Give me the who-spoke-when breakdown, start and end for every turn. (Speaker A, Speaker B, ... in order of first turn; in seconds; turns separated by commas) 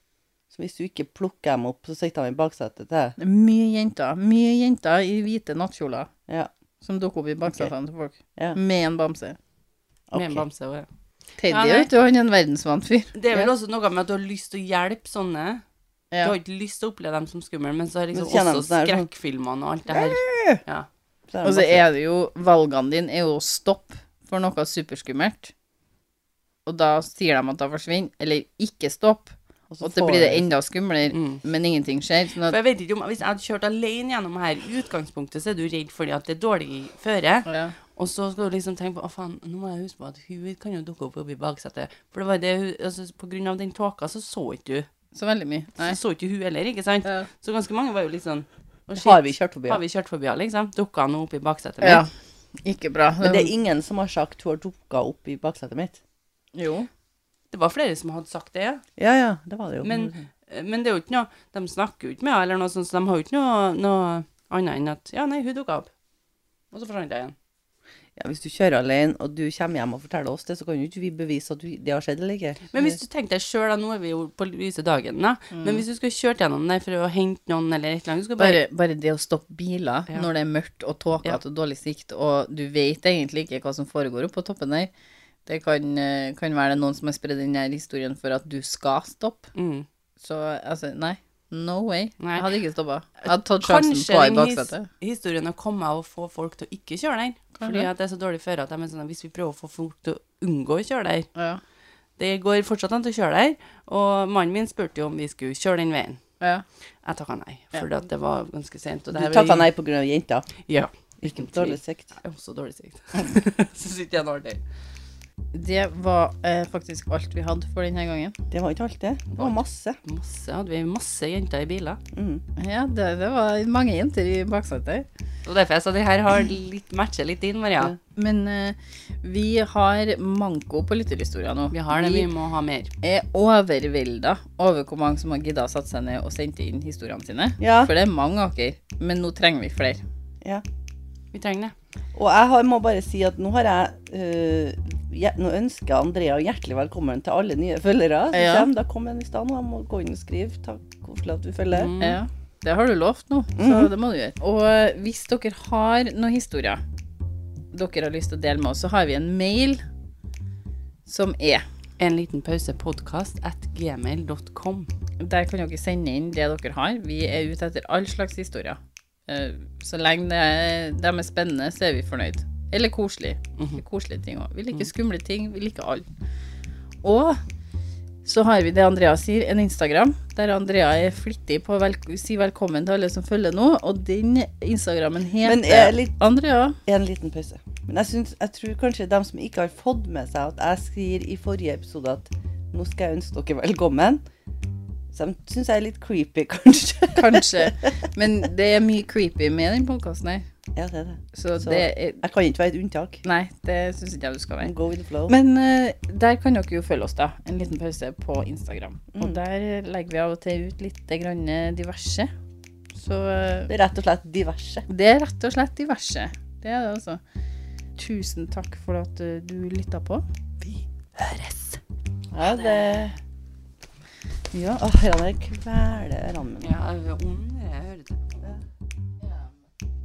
Speaker A: 0.5-3.1, Speaker B: 3.2-6.1, Speaker B: 6.8-9.4, Speaker A: 10.1-10.4, Speaker C: 10.1-10.9, Speaker B: 11.4-13.5, Speaker C: 11.4-11.9, Speaker C: 13.1-15.6, Speaker C: 16.2-20.9, Speaker A: 18.1-19.1, Speaker A: 19.9-20.6, Speaker A: 21.3-21.8, Speaker B: 21.4-25.5, Speaker B: 26.6-32.5, Speaker A: 29.7-30.4, Speaker C: 31.1-31.4, Speaker C: 32.5-44.9, Speaker B: 37.5-37.7, Speaker B: 45.1-46.0, Speaker C: 45.8-52.0, Speaker A: 48.9-49.8, Speaker B: 51.8-52.1, Speaker B: 52.6-53.5, Speaker A: 53.2-56.0, Speaker B: 56.5-56.9, Speaker C: 57.5-58.8, Speaker A: 59.0-60.2, Speaker C: 59.8-65.9, Speaker C: 66.7-67.3, Speaker A: 68.2-72.9, Speaker C: 72.7-78.6, Speaker B: 75.5-75.8, Speaker B: 78.4-84.9, Speaker B: 85.5-89.5, Speaker C: 89.5-89.8, Speaker B: 90.2-94.9, Speaker C: 92.2-92.5, Speaker C: 93.2-101.3, Speaker B: 97.6-97.9, Speaker B: 101.3-101.6, Speaker C: 102.2-106.2, Speaker C: 107.0-109.7, Speaker A: 109.1-110.5, Speaker C: 110.6-114.6, Speaker A: 111.2-112.1, Speaker B: 115.5-118.4, Speaker A: 118.5-120.0, Speaker C: 119.3-122.0, Speaker A: 122.1-122.4, Speaker B: 122.6-125.0, Speaker C: 125.4-127.9, Speaker B: 128.2-132.3, Speaker C: 131.7-132.9, Speaker B: 133.0-140.0, Speaker A: 137.6-137.9, Speaker C: 141.3-141.7, Speaker A: 142.1-151.9, Speaker B: 148.3-148.7, Speaker C: 151.7-152.2, Speaker B: 152.0-156.8, Speaker A: 153.6-153.9, Speaker B: 157.7-159.8, Speaker B: 161.1-161.6, Speaker C: 162.0-164.9, Speaker B: 165.2-176.1, Speaker C: 173.6-173.8, Speaker B: 177.0-177.4, Speaker B: 178.2-186.8, Speaker A: 185.4-186.2, Speaker A: 186.8-194.2, Speaker A: 195.1-197.9, Speaker B: 197.1-200.5, Speaker A: 200.7-203.2, Speaker B: 201.3-202.2, Speaker B: 203.2-204.7, Speaker A: 204.6-205.3, Speaker B: 205.3-212.3, Speaker B: 212.9-213.7, Speaker A: 213.7-214.8, Speaker B: 214.9-217.2, Speaker B: 217.9-220.2, Speaker B: 221.2-221.8, Speaker A: 222.3-223.2, Speaker A: 224.5-226.7, Speaker C: 226.6-228.2